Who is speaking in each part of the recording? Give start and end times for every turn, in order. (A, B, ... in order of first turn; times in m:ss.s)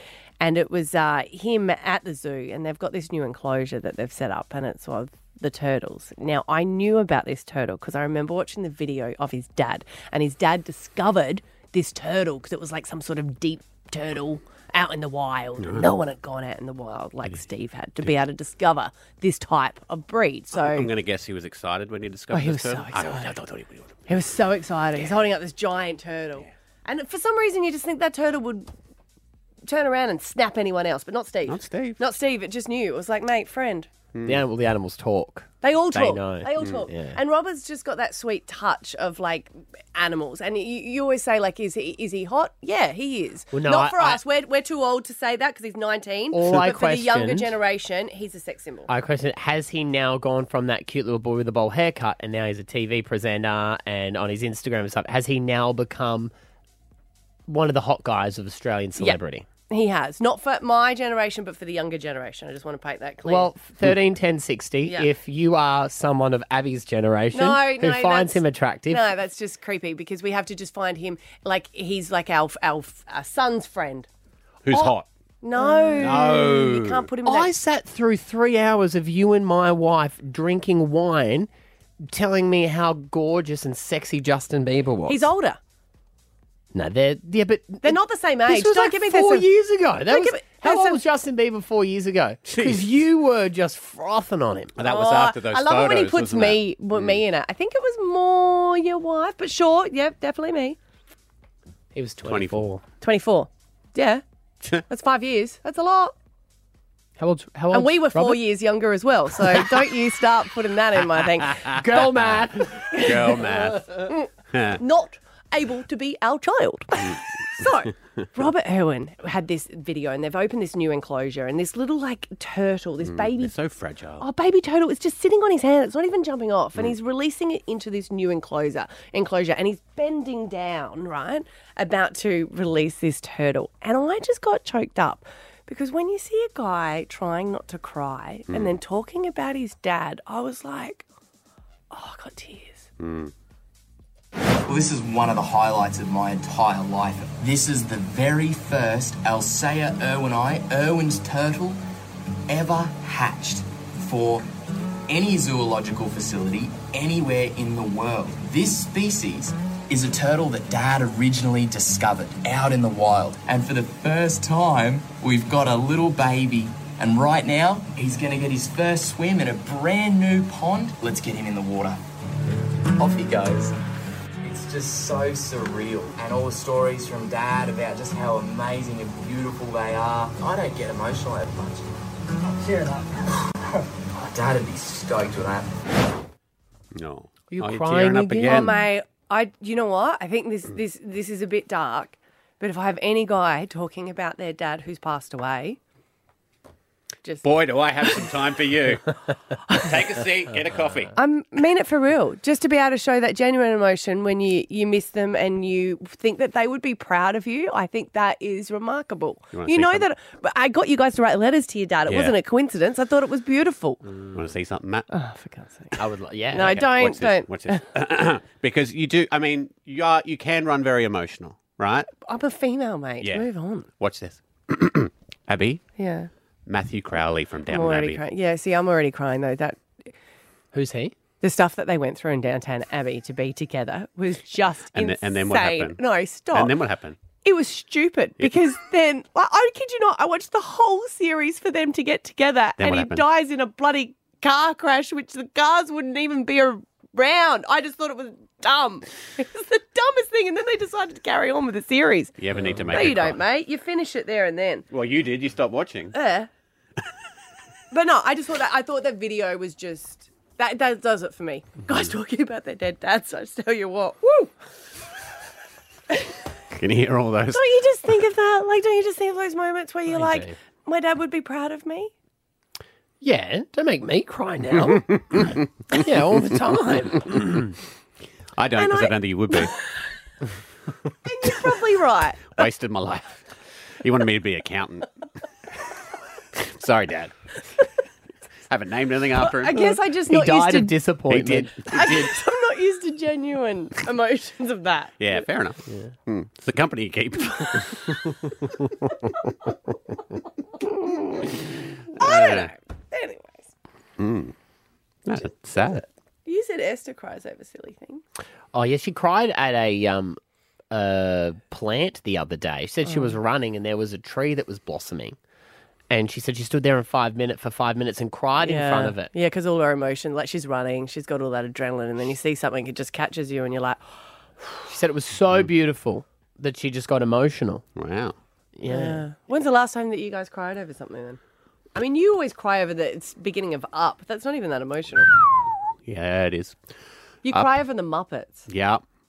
0:00.4-0:20.9 A
0:15.6-0:15.9 B
0:20.6-0:24.1 B
0:22.3-0:23.4 A
0:24.1-0:28.7 A
0:29.6-0:33.9 A
0:31.5-0:32.0 B
0:34.1-0:34.4 B
0:34.2-0:37.2 C
0:35.6-0:48.9 A
0:43.5-0:44.2 C
0:46.3-0:47.5 C
0:48.9-0:56.3 C
0:57.5-0:59.4 C
0:59.0-1:03.5 A
1:03.2-1:09.0 C
1:07.3-1:14.1 A
1:14.6-1:15.1 B
1:14.7-1:17.5 A
1:16.0-1:17.1 B
1:17.2-1:21.5 C
1:22.0-1:25.3 C
1:25.1-1:25.6 A
1:26.7-1:34.7 C
1:27.8-1:29.5 A
1:30.1-1:31.0 A
1:32.5-1:33.0 B
1:34.8-1:37.2 B
1:34.8-1:40.8 A
1:41.9-1:42.8 C
1:42.3-1:42.6 B
1:43.0-1:44.2 A
1:44.9-1:46.1 A
1:47.2-1:48.4 C
1:47.7-2:03.5 A
1:51.7-1:52.8 C
1:53.0-1:53.9 B
1:54.5-1:54.8 B
2:03.0-2:04.2 B
2:04.2-2:21.1 A
2:18.5-2:18.7 B
2:21.9-2:22.9 A
2:23.0-2:23.3 B
2:24.7-2:31.8 D
2:32.5-2:34.5 D
2:35.1-2:52.0 D
2:53.0-2:53.8 D
2:54.4-3:01.9 D
3:02.4-3:05.7 D
3:07.0-3:08.8 B
3:07.5-3:08.8 C
3:08.4-3:15.8 A
3:17.4-3:21.1 B
3:21.2-3:34.0 A
3:29.5-3:30.1 B
3:32.1-3:32.3 B
3:34.3-3:35.1 B
3:35.1-3:36.0 A
3:36.0-3:36.8 C
3:36.5-3:37.8 A
3:36.6-3:42.1 B
3:42.2-3:43.9 A
3:43.2-3:43.5 B
3:44.0-3:45.8 B
3:46.0-3:46.3 A
3:46.7-3:48.2 B
3:47.7-3:50.1 A
3:50.7-3:51.1 C
3:51.4-3:56.7 A
3:54.9-3:56.0 B
3:56.5-3:57.2 B
3:57.4-4:12.4 A
4:02.8-4:03.2 B
4:12.4-4:13.4 B
4:12.9-4:14.8 A
4:14.9-4:16.2 B
4:16.1-4:16.5 A
4:17.9-4:24.5 A
4:26.7-4:27.6 B
4:27.5-4:32.1 A
4:30.1-4:30.6 C
4:33.2-4:35.1 C
4:35.9-4:37.5 C
4:36.4-4:37.2 A
4:38.6-4:39.7 B
4:38.8-4:39.7 A
4:41.2-4:42.6 A
4:42.6-4:43.4 B
4:44.0-4:45.1 B
4:46.5-4:47.3 B
4:48.7-4:49.8 B
4:49.4-4:51.0 A
4:49.8-4:51.7 C
4:51.3-4:52.3 B
4:51.9-4:55.2 A
4:55.2-4:58.8 B
5:02.1-5:03.7 A
5:02.2-5:02.7 B
5:04.2-5:04.5 B
5:05.3-5:06.0 B
5:06.4-5:08.2 A
5:08.7-5:10.4 C
5:10.9-5:15.4 C
5:13.1-5:13.4 A
5:16.1-5:19.3 C
5:18.6-5:24.0 A
5:24.9-5:27.8 C
5:28.0-5:28.4 B
5:28.8-5:29.2 C
5:28.8-5:31.4 A
5:32.0-5:35.3 A
5:36.0-5:36.8 B
5:37.4-5:38.7 A
5:37.5-5:37.8 B
5:38.7-5:39.0 B